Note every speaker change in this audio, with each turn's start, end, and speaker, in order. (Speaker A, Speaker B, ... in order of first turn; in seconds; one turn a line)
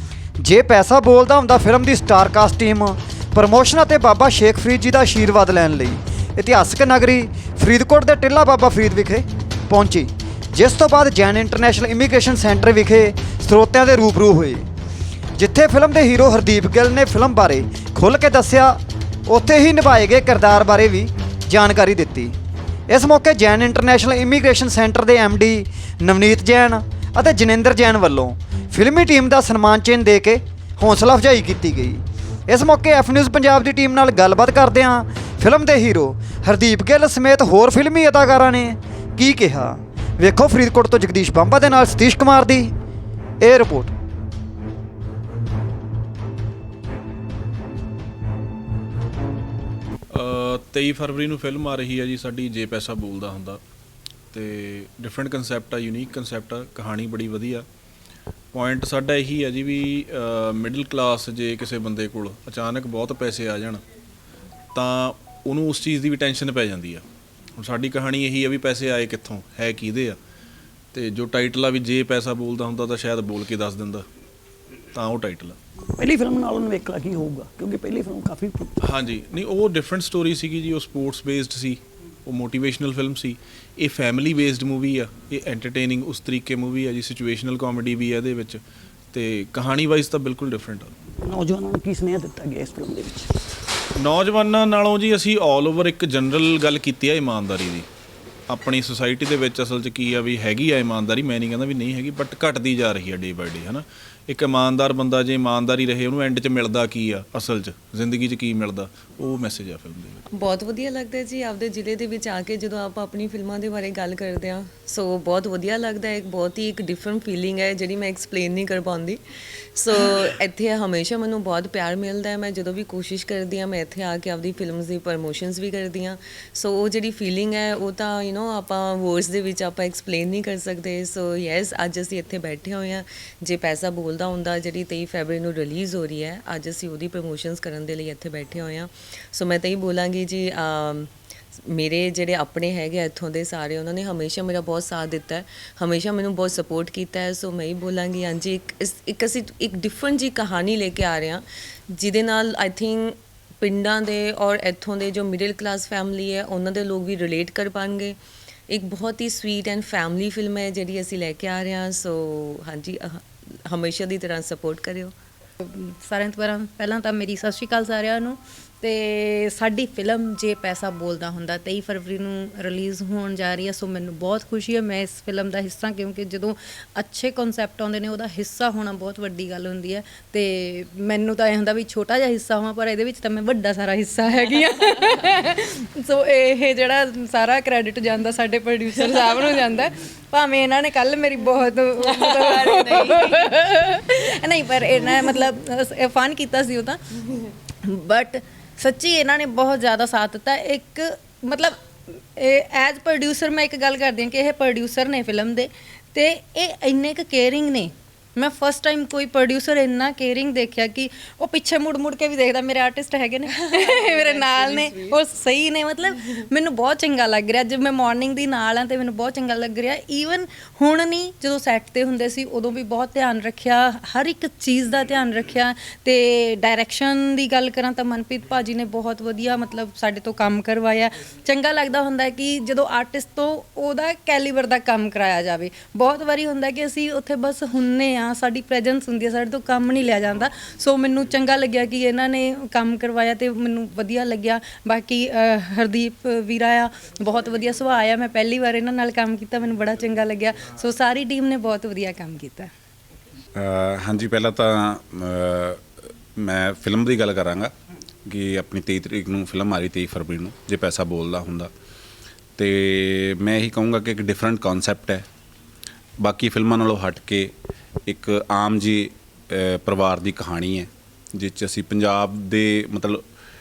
Speaker A: 0.4-14.6
Speaker A: 15.4-22.4
Speaker A: 22.9-42.7
Speaker A: 43.4-43.9
Speaker B: 50.1-53.6
Speaker B: 54.3-57.6
Speaker B: 58.5-63.8
Speaker B: 64.7-67.0
Speaker B: 67.6-70.1
Speaker B: 70.9-74.0
Speaker B: 74.9-75.5
Speaker C: 76.0-78.7
Speaker B: 78.9-88.6
Speaker B: 89.1-90.9
Speaker C: 91.2-93.2
Speaker B: 94.0-97.8
Speaker B: 98.5-110.2
Speaker D: 110.3-119.2
Speaker D: 119.8-158.2
Speaker D: 158.7-165.1
Speaker E: 165.6-197.2
Speaker D: 192.5-193.3
Speaker E: 197.8-252.7
Speaker D: 213.7-215.0
Speaker F: 253.5-255.8
Speaker F: 256.4-257.7
Speaker F: 258.2-261.7
Speaker F: 262.6-265.2
Speaker F: 266.2-267.5
Speaker F: 268.1-273.2